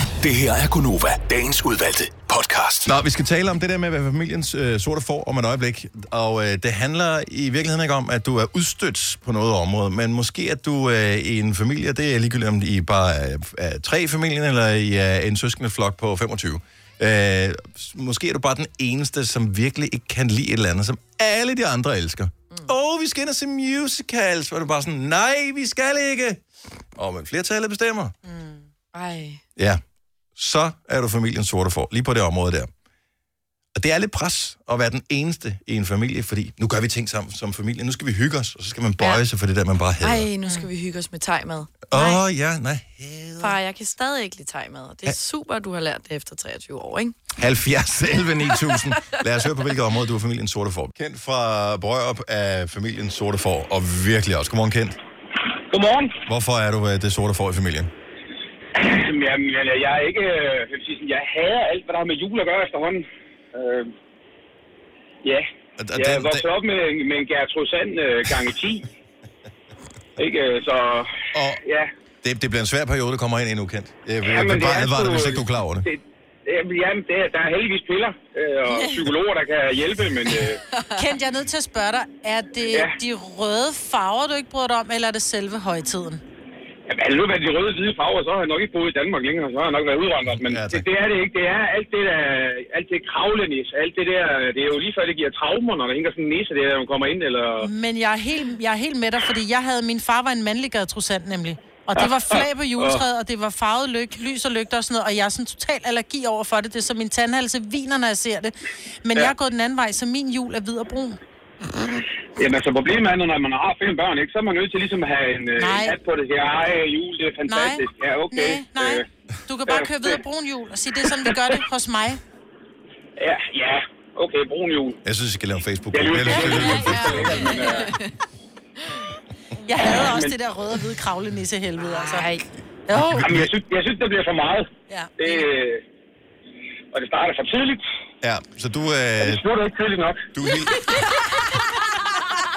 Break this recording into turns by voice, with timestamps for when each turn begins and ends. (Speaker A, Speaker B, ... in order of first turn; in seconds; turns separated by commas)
Speaker A: 0.2-2.9, Speaker B: 2.8-26.4, Speaker B: 26.9-28.1, Speaker C: 28.3-28.6, Speaker D: 28.9-29.4, Speaker B: 30.4-32.7, Speaker B: 33.7-40.3, Speaker D: 40.0-42.2, Speaker B: 41.9-43.5, Speaker D: 43.4-47.1, Speaker B: 47.4-55.0, Speaker D: 48.7-49.2, Speaker E: 55.7-56.2, Speaker B: 56.2-57.9, Speaker E: 58.8-63.9, Speaker E: 65.2-68.9, Speaker B: 65.8-66.4, Speaker E: 70.2-71.9, Speaker B: 71.3-71.6, Speaker B: 72.2-75.8, Speaker E: 74.2-80.6, Speaker C: 80.9-86.2, Speaker E: 82.6-83.0, Speaker E: 86.9-97.7, Speaker B: 90.5-90.8, Speaker C: 97.6-111.2, Speaker E: 102.0-103.0, Speaker E: 112.4-119.0, Speaker C: 115.6-116.0, Speaker C: 117.5-122.2, Speaker E: 119.7-120.2, Speaker E: 121.3-121.6, Speaker E: 123.2-125.0, Speaker B: 125.0-127.6, Speaker E: 125.9-127.9, Speaker C: 126.2-127.7, Speaker D: 126.9-128.1, Speaker C: 129.6-132.3, Speaker E: 129.8-130.4, Speaker D: 131.9-132.4, Speaker C: 132.9-133.3, Speaker B: 133.2-133.5, Speaker E: 133.2-135.8, Speaker E: 136.9-137.8, Speaker B: 138.2-139.4, Speaker E: 139.2-140.3, Speaker B: 140.3-141.3